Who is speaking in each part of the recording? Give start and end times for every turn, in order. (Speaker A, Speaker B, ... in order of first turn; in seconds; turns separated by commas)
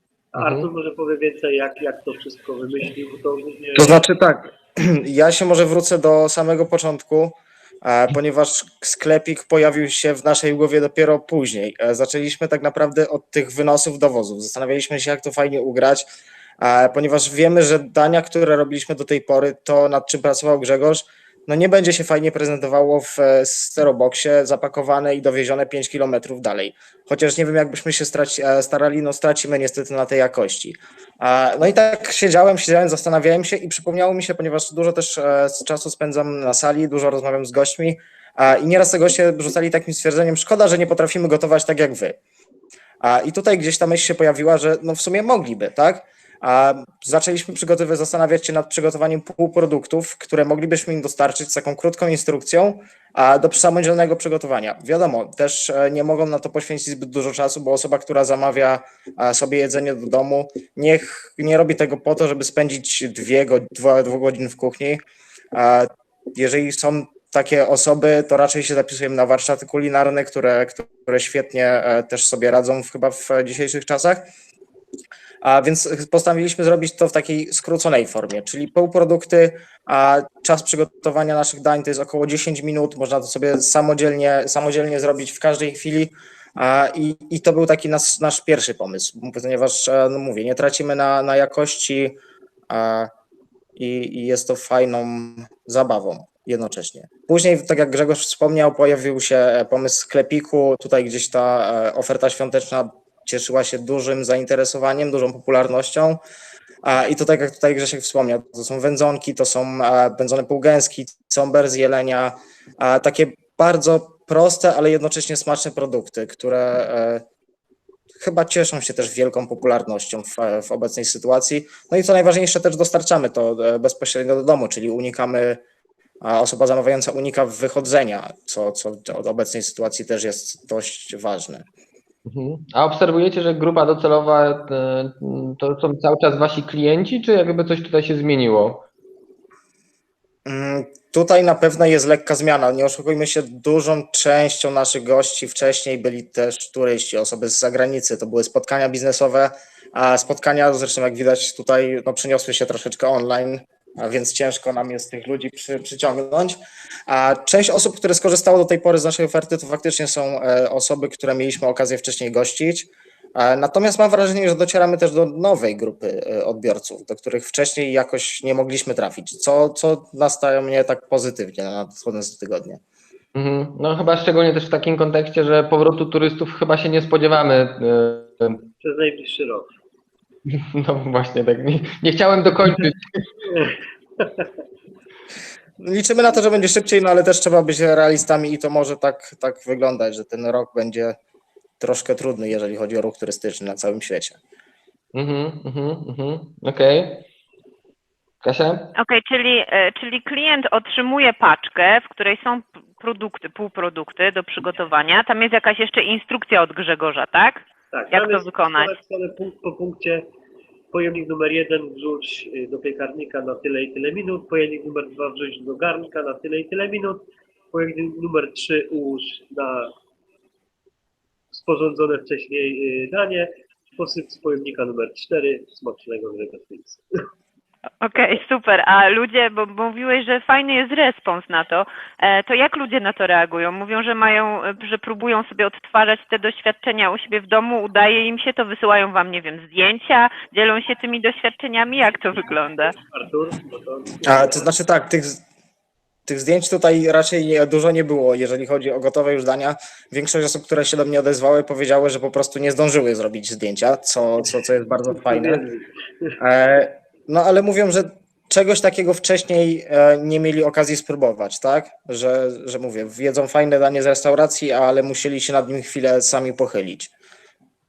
Speaker A: 0.3-4.0, Speaker B: 0.4-0.7, Speaker C: 3.8-16.1, Speaker C: 16.6-42.2, Speaker C: 43.0-65.0, Speaker C: 65.5-74.3, Speaker C: 75.4-92.2, Speaker C: 92.7-93.1, Speaker C: 93.8-106.2, Speaker C: 106.8-117.2, Speaker C: 118.2-125.6, Speaker C: 126.2-131.7, Speaker B: 132.3-138.8, Speaker C: 140.5-156.6, Speaker C: 157.1-172.8, Speaker B: 173.3-178.7, Speaker A: 178.8-179.7, Speaker B: 180.5-183.3, Speaker A: 183.5-184.5, Speaker C: 185.8-191.2, Speaker C: 191.8-194.4, Speaker B: 195.1-197.3, Speaker B: 198.4-198.9, Speaker D: 199.0-208.9, Speaker A: 207.9-210.2, Speaker A: 210.9-219.9, Speaker A: 221.5-227.0, Speaker D: 228.0-242.9, Speaker A: 228.2-228.4, Speaker A: 243.0-244.7, Speaker C: 244.2-245.4, Speaker C: 246.3-255.6, Speaker A: 255.1-256.4, Speaker C: 256.4-267.1